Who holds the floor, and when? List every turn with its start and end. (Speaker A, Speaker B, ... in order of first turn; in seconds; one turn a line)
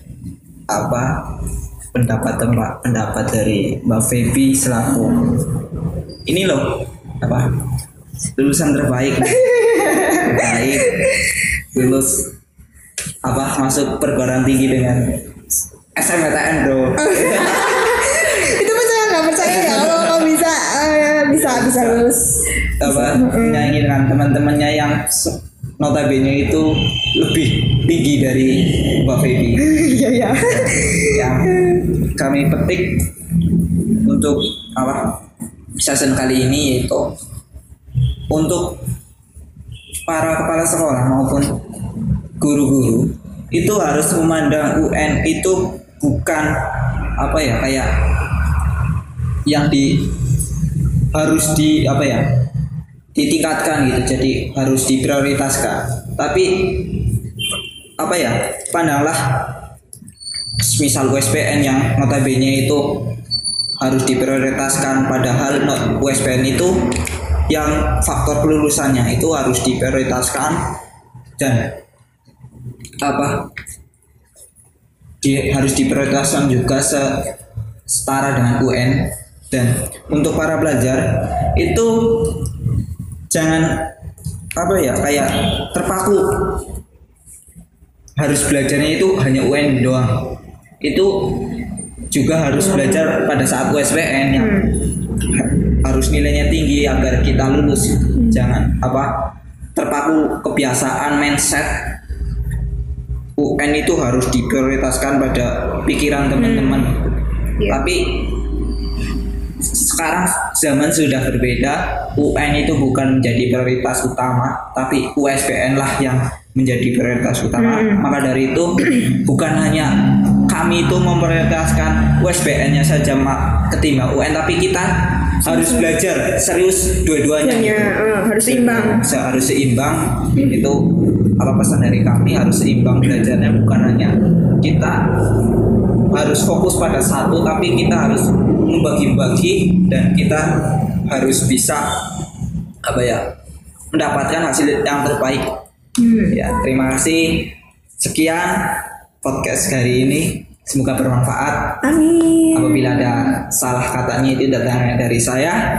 Speaker A: 0.7-1.3
Speaker A: 1.9-5.5
Speaker A: 6.2-7.5
Speaker A: 8.4-9.5
Speaker B: 9.3-11.4
Speaker A: 10.1-11.0
Speaker A: 11.7-12.3
Speaker A: 13.2-15.3
Speaker A: 15.9-18.1
Speaker B: 17.0-23.8
Speaker A: 19.4-20.2
Speaker A: 21.3-22.0
Speaker A: 22.8-29.7
Speaker B: 29.6-31.9
Speaker A: 30.4-33.1
Speaker A: 34.0-35.1
Speaker A: 35.8-37.1
Speaker A: 38.3-38.8
Speaker A: 40.0-41.6
Speaker A: 42.4-46.5
Speaker A: 47.2-47.9
Speaker A: 49.5-50.1
Speaker A: 51.1-52.3
Speaker A: 53.1-57.0
Speaker A: 58.0-59.5
Speaker A: 60.6-63.1
Speaker A: 63.8-66.8
Speaker A: 67.5-70.6
Speaker A: 71.4-71.7
Speaker A: 73.0-73.5
Speaker A: 75.2-77.1
Speaker A: 77.9-82.4
Speaker A: 83.3-83.9
Speaker A: 84.5-86.6
Speaker A: 88.2-91.5
Speaker A: 92.1-101.9
Speaker B: 94.3-94.8
Speaker B: 98.2-98.4
Speaker A: 103.4-107.0
Speaker B: 106.4-106.9
Speaker B: 107.6-107.8
Speaker A: 107.7-108.5
Speaker A: 109.7-135.0
Speaker B: 117.5-118.0
Speaker B: 125.5-126.0
Speaker B: 127.4-129.1
Speaker A: 136.1-141.8
Speaker A: 142.8-143.3
Speaker A: 143.9-145.5
Speaker B: 146.0-146.6
Speaker A: 146.3-151.8
Speaker B: 151.8-153.3
Speaker A: 152.5-155.6